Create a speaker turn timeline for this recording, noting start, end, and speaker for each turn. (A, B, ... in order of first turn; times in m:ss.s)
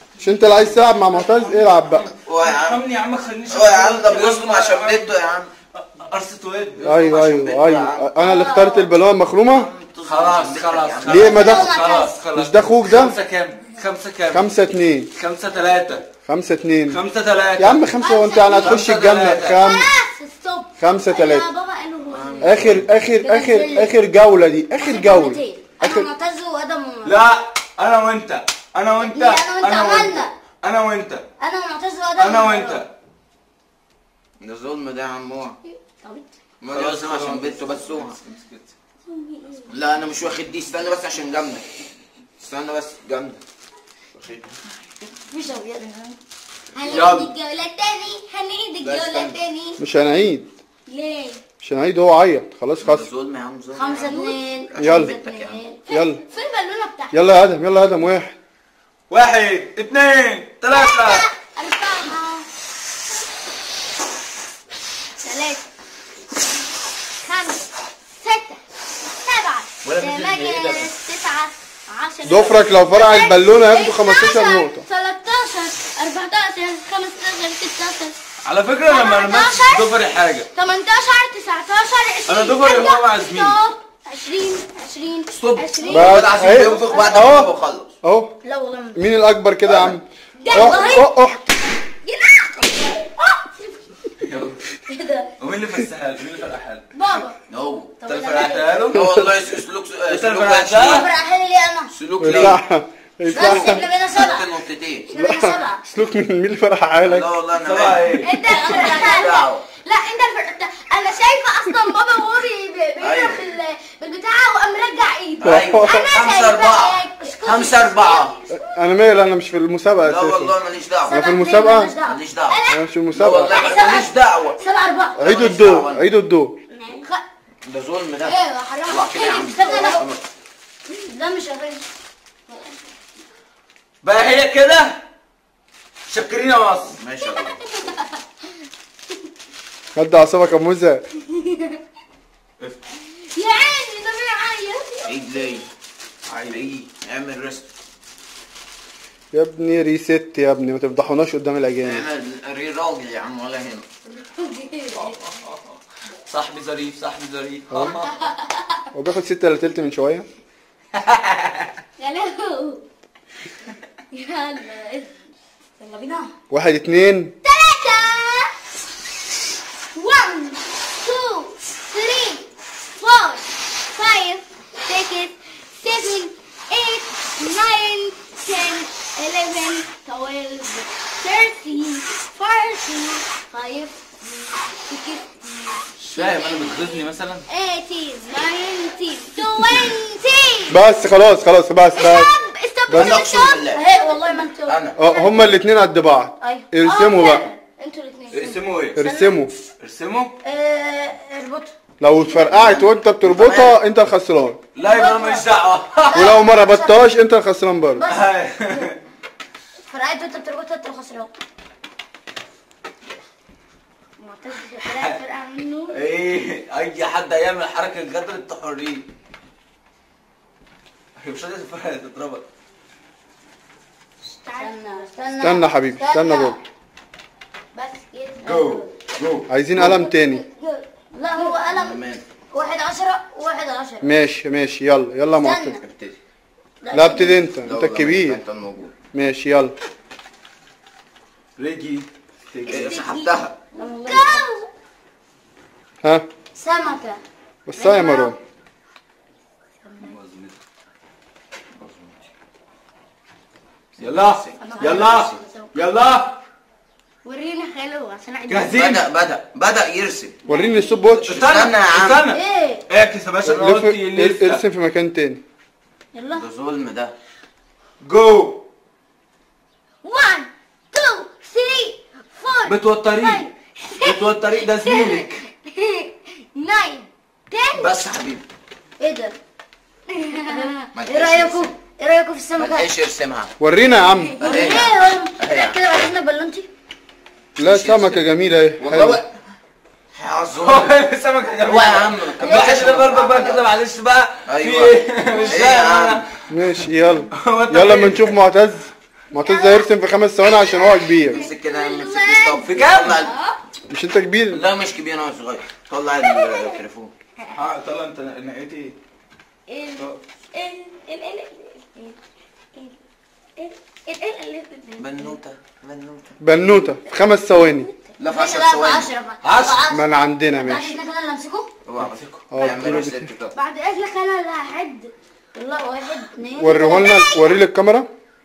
0:00.2-0:02.1 A
0:01.1-0:05.1 B
0:02.3-0:02.8 C
0:03.5-0:05.5 C
0:05.8-0:07.0 B
0:06.8-0:08.1 C
0:06.8-0:09.7 A
0:08.2-0:08.9 D
0:09.5-0:11.4 C
0:10.0-0:14.5 B
0:11.0-0:11.8 A
0:11.2-0:12.2 D
0:12.4-0:13.2 A
0:14.3-0:15.1 A
0:15.2-0:16.1 B
0:16.3-0:17.0 A
0:16.9-0:17.9 B
0:17.6-0:19.9 A
0:18.0-0:18.8 E
0:18.6-0:19.7 B
0:19.5-0:22.6 E
0:20.8-0:21.5 A
0:22.1-0:22.8 C
0:22.4-0:26.1 A
0:23.2-0:23.9 D
0:24.8-0:27.2 D
0:27.0-0:31.2 B
0:29.1-0:30.3 D
0:31.4-0:32.8 D
0:32.2-0:32.9 B
0:34.4-0:35.6 C
0:36.6-0:38.2 C
0:36.7-0:38.7 B
0:39.1-0:39.7 E
0:39.7-0:41.6 C
0:42.4-0:43.4 C
0:44.1-0:44.6 C
0:45.3-0:46.2 D
0:46.7-0:49.8 E
0:46.8-0:47.3 B
0:46.8-0:47.3 C
0:48.8-0:49.4 C
0:49.8-0:50.5 A
0:50.9-0:51.4 E
0:51.6-0:53.1 A
0:52.8-0:55.6 C
0:53.7-0:55.8 D
0:53.9-0:54.4 E
0:54.8-0:55.1 A
0:55.9-0:57.2 E
0:55.9-0:56.2 A
0:57.1-0:58.4 A
0:59.1-1:01.3 B
1:00.7-1:02.5 E
1:05.2-1:05.6 E
1:07.2-1:08.6 E
1:09.2-1:18.1 E
1:09.8-1:10.9 B
1:12.2-1:14.8 A
1:18.4-1:20.5 B
1:18.9-1:19.9 E
1:20.5-1:27.5 E
1:22.3-1:23.6 B
1:25.3-1:27.9 C
1:25.9-1:27.5 A
1:28.0-1:28.4 A
1:28.4-1:29.0 D
1:29.0-1:31.5 A
1:29.6-1:30.0 C
1:30.4-1:31.1 E
1:30.5-1:31.0 D
1:32.1-1:33.7 E
1:34.2-1:34.6 B
1:34.9-1:35.3 D
1:35.4-1:36.8 B
1:36.9-1:37.4 E
1:37.5-1:38.0 C
1:38.0-1:38.8 E
1:38.0-1:39.1 B
1:38.8-1:41.1 C
1:38.9-1:39.3 A
1:40.1-1:41.1 B
1:40.8-1:42.4 D
1:41.9-1:42.6 C
1:42.2-1:43.8 A
1:43.3-1:44.6 D
1:43.3-1:45.1 C
1:45.1-1:45.8 D
1:45.1-1:47.3 A
1:47.0-1:49.6 C
1:47.6-1:48.3 B
1:48.2-1:58.6 E
1:48.4-1:49.4 D
1:53.0-1:53.4 C
1:55.4-1:58.3 C
1:55.4-1:56.1 A
1:58.5-2:00.6 A
2:00.0-2:01.2 C
2:01.1-2:02.2 D
2:01.1-2:02.0 A
2:02.0-2:04.6 C
2:02.5-2:02.8 E
2:02.7-2:03.6 A
2:03.5-2:05.2 D
2:03.6-2:04.0 E
2:05.2-2:06.0 C
2:05.2-2:06.6 A
2:06.7-2:07.1 D
2:07.0-2:07.2 E
2:07.6-2:10.2 C
2:08.2-2:10.1 E
2:09.2-2:10.0 D
2:10.9-2:11.8 D
2:14.0-2:15.0 B
2:16.1-2:17.0 B
2:17.0-2:17.6 C
2:17.2-2:18.2 E
2:20.0-2:21.0 A
2:21.3-2:21.7 E
2:23.3-2:25.6 E
2:25.0-2:25.6 C
2:26.3-2:26.7 B
2:26.5-2:27.7 C
2:29.3-2:32.1 A
2:31.8-2:33.9 C
2:34.1-2:35.2 E
2:34.9-2:35.7 B
2:36.3-2:38.2 B
2:38.1-2:38.6 E
2:38.9-2:40.3 A
2:40.9-2:41.7 B
2:42.0-2:42.8 E
2:44.1-2:45.1 E
2:45.8-2:46.3 D
2:46.5-2:47.3 A
2:47.4-2:48.5 E
2:49.9-3:04.0 E
3:04.9-3:10.8 E
3:06.0-3:07.4 B
3:10.7-3:12.3 A
3:12.0-3:14.7 E
3:12.9-3:13.2 A
3:12.9-3:13.8 C
3:13.7-3:15.3 D
3:14.7-3:15.0 C
3:15.0-3:17.5 A
3:16.4-3:16.7 D
3:16.8-3:18.6 E
3:18.3-3:19.0 B
3:19.0-3:19.5 A
3:19.0-3:19.5 D
3:19.8-3:20.3 B
3:20.4-3:21.7 D
3:22.0-3:24.6 A
3:22.3-3:23.8 C
3:24.8-3:26.4 B
3:24.8-3:25.5 D
3:26.1-3:27.1 D
3:26.1-3:28.0 A
3:28.0-3:28.9 D
3:28.0-3:29.0 B
3:29.9-3:31.3 D
3:34.2-3:36.0 E
3:34.8-3:35.2 B
3:35.9-3:39.0 B
3:41.2-3:42.4 B
3:44.3-3:45.1 E
3:44.6-3:46.6 D
3:45.4-3:46.6 A
3:47.7-3:48.9 E
3:48.4-3:49.5 B
3:49.5-3:50.4 A
3:49.8-3:51.6 E
3:51.1-3:54.1 D
3:51.7-3:52.2 C
3:54.0-3:55.8 A
3:55.4-3:55.8 D
3:55.8-3:56.2 C
3:56.8-3:57.4 D
3:56.9-3:58.4 A
3:57.6-3:58.9 C
3:59.1-3:59.8 A
4:01.6-4:03.0 B
4:02.7-4:03.3 E
4:02.7-4:03.6 C
4:03.7-4:04.6 D
4:04.0-4:04.6 E
4:06.6-4:07.2 D
4:07.7-4:08.4 A
4:07.8-4:08.4 D
4:09.8-4:10.1 E
4:10.0-4:10.6 B
4:11.8-4:12.2 C
4:14.0-4:15.4 C
4:14.0-4:16.4 B
4:14.6-4:15.7 E
4:17.2-4:18.8 E
4:18.5-4:19.1 B
4:18.7-4:20.4 C
4:20.5-4:21.0 E
4:20.5-4:21.4 A
4:21.1-4:24.6 B
4:21.3-4:22.2 C
4:22.3-4:22.8 D
4:23.4-4:25.4 A
4:26.2-4:26.5 D
4:26.3-4:27.1 C
4:28.0-4:28.6 B
4:30.0-4:37.9 E
4:32.6-4:33.5 B
4:34.0-4:35.4 B
4:37.7-4:38.4 C
4:39.0-4:39.4 D
4:40.1-4:40.7 E
4:40.4-4:42.9 D
4:40.9-4:41.7 C
4:42.6-4:43.5 C
4:43.6-4:44.5 A
4:44.4-4:45.8 C
4:44.4-4:46.7 D
4:44.4-4:44.8 E
4:47.6-4:49.2 A
4:47.6-4:48.2 C
4:48.8-4:49.3 C
4:50.2-4:50.9 C
4:50.6-4:56.3 B
4:51.6-4:53.6 C
4:52.5-4:53.0 D
4:54.5-4:56.2 C
4:56.5-5:01.5 A
4:57.3-4:58.4 B
4:59.4-4:59.9 E
5:00.4-5:03.6 E
5:01.2-5:03.4 C
5:02.7-5:03.2 B
5:03.9-5:04.6 A
5:04.5-5:07.1 C
5:06.2-5:06.7 E
5:07.5-5:09.0 B
5:09.7-5:12.2 E
5:13.6-5:15.4 E
5:15.0-5:16.4 C
5:16.4-5:17.9 A
5:18.2-5:19.1 C
5:18.3-5:20.0 D
5:19.4-5:19.9 B
5:19.9-5:21.0 A
5:20.5-5:21.7 D
5:21.9-5:23.6 C
5:22.0-5:22.4 B
5:22.5-5:23.3 A
5:23.5-5:25.1 E
5:25.6-5:27.2 D
5:26.6-5:28.1 A
5:26.7-5:27.5 E